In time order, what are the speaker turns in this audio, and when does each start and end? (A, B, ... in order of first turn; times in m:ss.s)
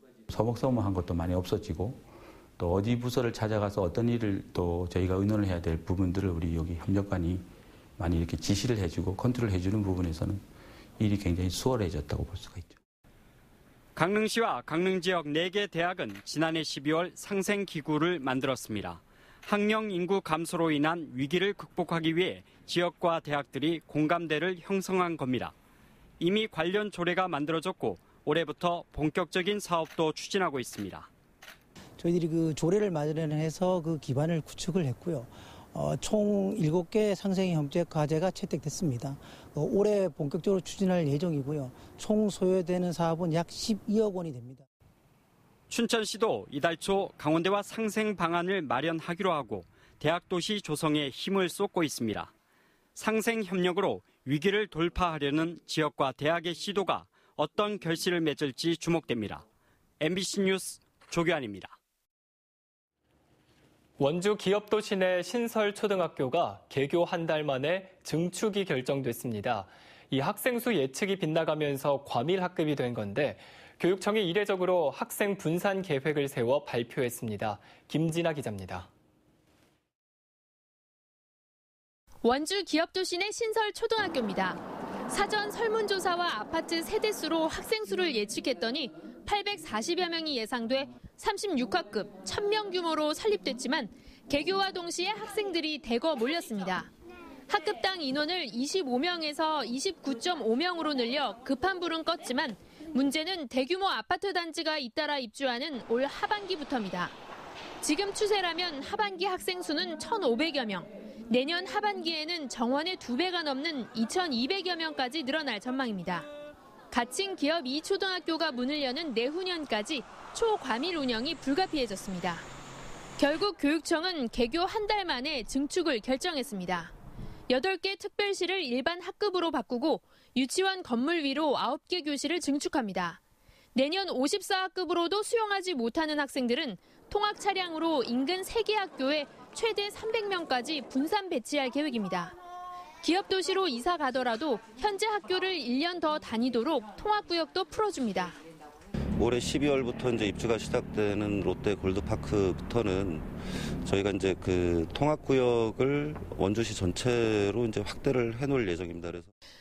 0:00.3-0:07.5 A
0:08.0-0:10.4 A
0:11.0-0:12.8 A
0:14.0-0:25.5 B
0:26.2-0:31.1 B
0:32.0-0:44.6 C
0:45.7-0:52.3 B
0:53.0-0:59.4 B
1:00.0-1:01.7 B
1:04.0-1:18.9 D
1:22.2-1:36.9 E
1:37.5-1:47.2 E
1:47.8-1:56.3 E
1:56.9-2:02.5 E
2:03.2-2:06.9 E
2:07.5-2:13.2 E
2:13.8-2:22.4 E
2:23.0-2:28.4 E
2:29.2-2:39.3 F